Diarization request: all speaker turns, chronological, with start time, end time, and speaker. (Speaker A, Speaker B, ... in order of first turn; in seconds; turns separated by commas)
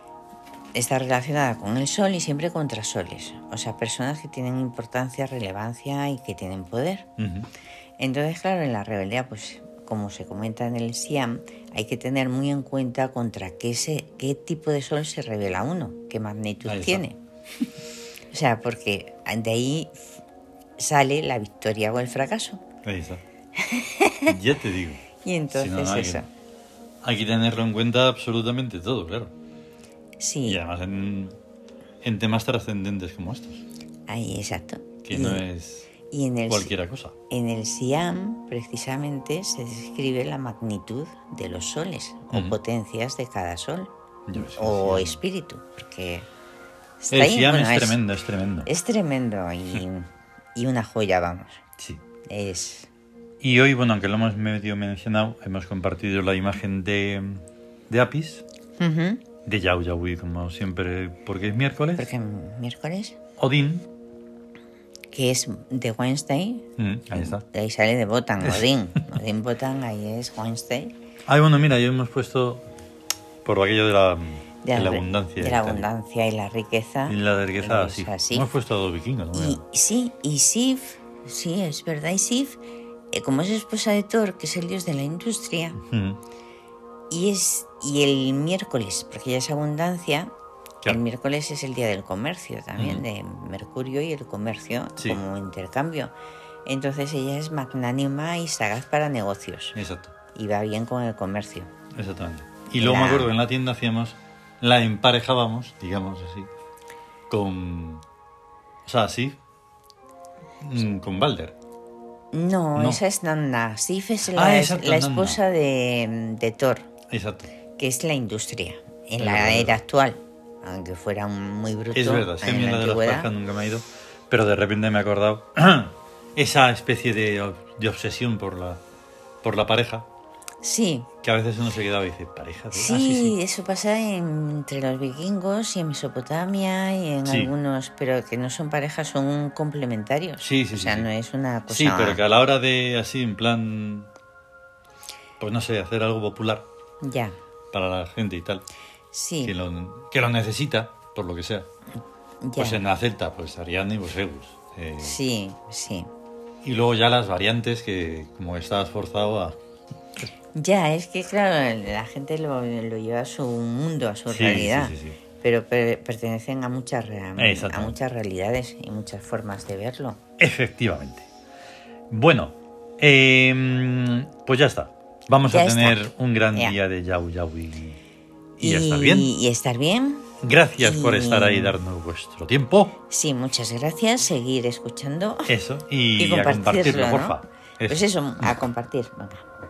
Speaker A: 0.7-7.1, Speaker B: 7.2-7.5, Speaker A: 8.0-17.2, Speaker B: 16.6-17.0, Speaker A: 18.3-20.2, Speaker A: 20.8-22.6, Speaker B: 22.8-23.2, Speaker A: 23.6-24.4, Speaker B: 24.3-26.2, Speaker A: 25.2-26.3, Speaker B: 27.0-29.3, Speaker A: 30.2-30.6, Speaker B: 30.5-31.4, Speaker B: 32.0-33.6, Speaker A: 34.1-35.5, Speaker B: 35.0-35.9, Speaker A: 36.1-36.7, Speaker B: 36.5-37.1, Speaker A: 37.3-46.3, Speaker B: 44.3-45.2, Speaker A: 47.0-48.0, Speaker B: 47.1-48.7, Speaker A: 48.6-51.6, Speaker A: 52.3-52.9, Speaker B: 53.4-58.4, Speaker A: 58.8-59.2, Speaker B: 59.5-62.1, Speaker A: 62.0-63.2, Speaker B: 63.4-63.9, Speaker A: 65.1-70.9, Speaker B: 66.8-67.4, Speaker B: 68.4-69.1, Speaker B: 71.3-72.7, Speaker B: 73.4-75.9, Speaker A: 74.6-78.5, Speaker B: 77.1-79.6, Speaker A: 79.3-82.6, Speaker A: 83.1-85.8, Speaker B: 85.8-86.2, Speaker A: 87.1-90.3, Speaker A: 90.9-96.1, Speaker B: 92.8-93.0, Speaker A: 96.7-99.8, Speaker B: 99.8-100.1, Speaker A: 100.3-101.7, Speaker B: 101.9-106.5, Speaker A: 102.8-103.3, Speaker B: 107.3-108.0, Speaker B: 108.8-109.4, Speaker B: 110.6-111.5, Speaker A: 112.3-116.9, Speaker B: 112.8-113.0, Speaker B: 114.3-115.4, Speaker B: 117.1-117.5, Speaker A: 117.8-123.3, Speaker B: 119.2-119.8, Speaker B: 121.9-128.8, Speaker B: 129.4-130.1, Speaker A: 130.6-131.1, Speaker B: 131.2-133.4, Speaker A: 132.7-142.2, Speaker B: 137.3-137.5, Speaker B: 140.4-141.1, Speaker B: 141.7-144.1, Speaker B: 145.4-146.7, Speaker A: 147.0-147.4, Speaker B: 147.7-148.6, Speaker A: 149.1-149.6, Speaker B: 149.4-151.7, Speaker A: 152.4-152.8, Speaker B: 152.6-155.2, Speaker A: 155.0-156.1, Speaker B: 156.6-159.6, Speaker A: 160.6-170.2, Speaker B: 164.3-165.2, Speaker B: 167.4-168.0, Speaker B: 170.4-171.3, Speaker B: 172.1-178.0, Speaker A: 175.4-176.8, Speaker B: 178.6-179.3, Speaker A: 178.6-181.8, Speaker B: 180.4-183.0, Speaker A: 183.1-185.6, Speaker B: 185.5-188.6, Speaker A: 186.2-189.5